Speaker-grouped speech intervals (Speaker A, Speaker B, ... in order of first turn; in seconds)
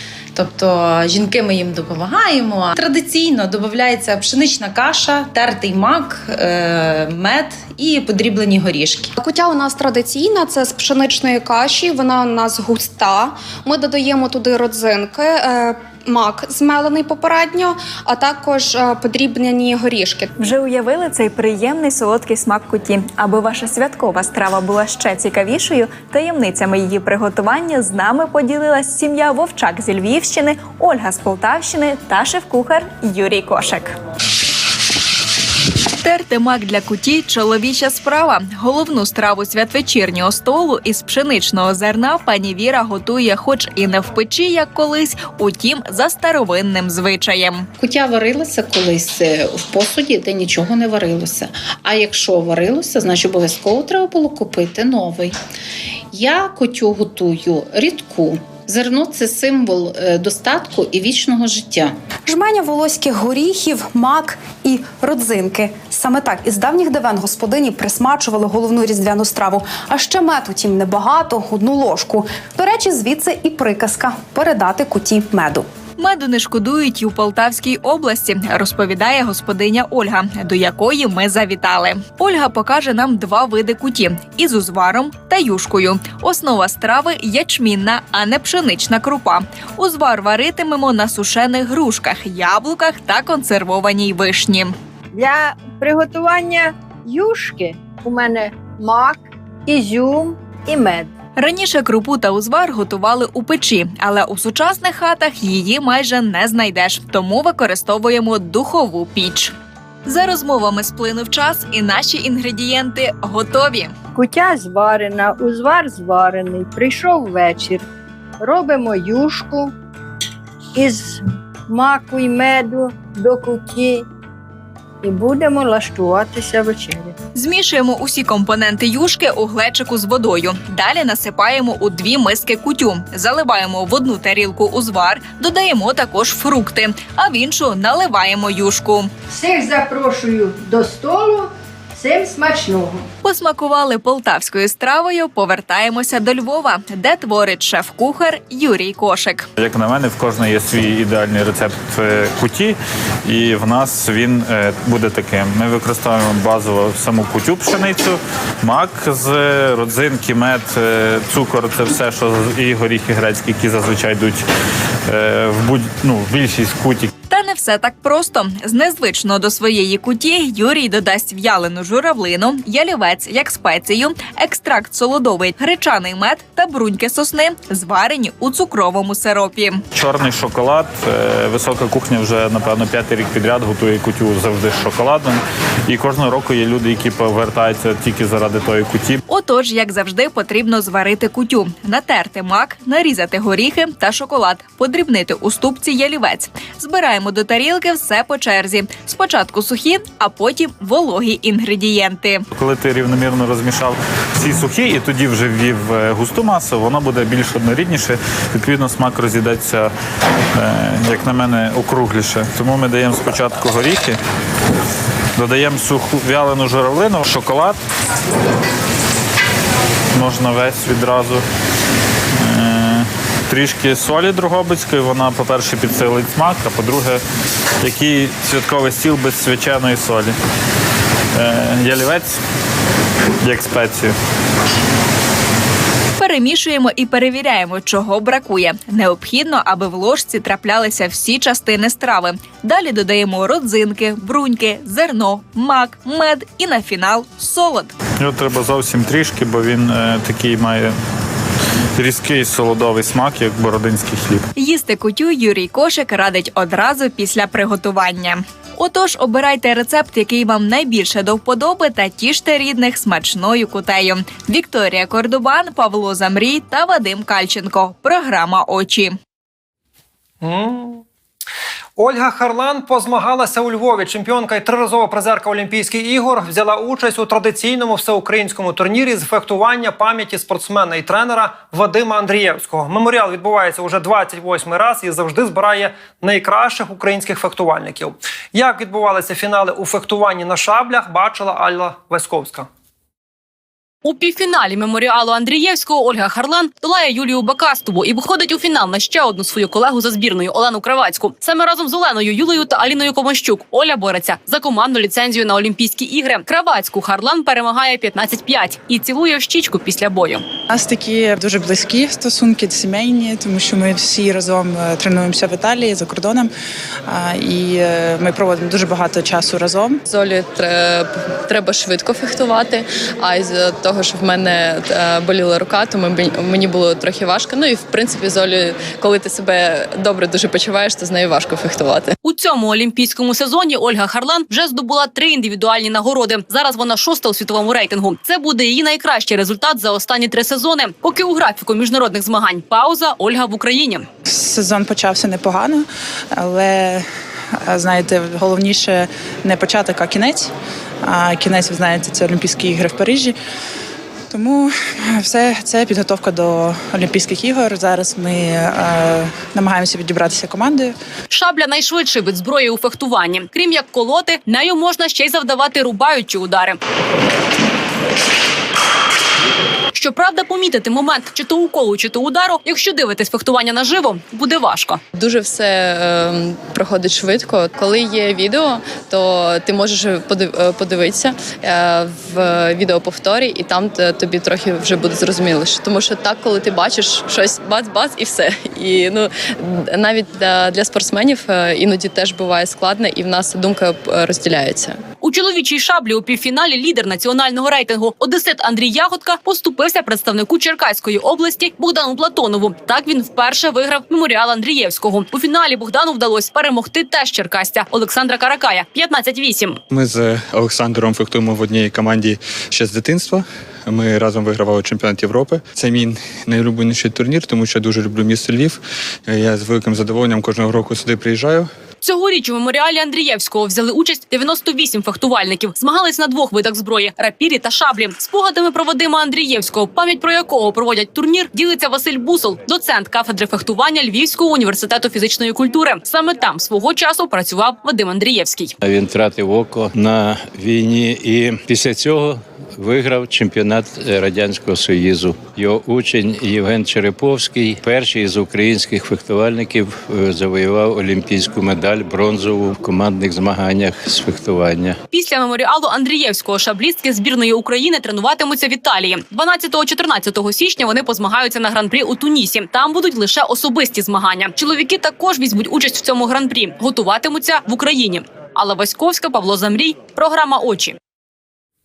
Speaker A: 9.2-20.3
Speaker B: 20.4-34.0, 36.0-47.7, 76.0-94.8, 101.4-109.5, 110.1-114.0, 127.3-139.1, 143.2-149.5, 167.3-179.8, 189.3-202.4, 236.2-247.9, 254.6-269.1
Speaker C: 47.8-55.4, 56.1-62.0
Speaker D: 95.1-101.1, 114.2-117.8, 118.4-119.7, 120.8-124.0, 125.0-127.2, 139.3-143.1
Speaker E: 149.6-164.4, 165.1-167.1, 179.9-189.2, 202.5-209.9, 210.6-214.2, 215.4-217.8, 220.1-221.4, 222.3-227.2, 227.8-230.3, 231.3-232.4, 233.4-234.2, 248.2-251.0, 252.0-254.5
Speaker F: 270.4-271.0, 272.0-292.7
Speaker G: 294.0-310.4, 332.2-344.1, 361.3-366.8, 369.9-375.0, 395.2-409.8, 422.0-438.8, 455.1-471.0
Speaker H: 310.7-316.5, 317.1-320.0, 344.3-347.1, 347.7-350.5, 351.0-353.4, 354.3-360.9
Speaker I: 320.1-332.2, 375.1-395.0
Speaker J: 409.9-421.7
Speaker K: 438.8-455.0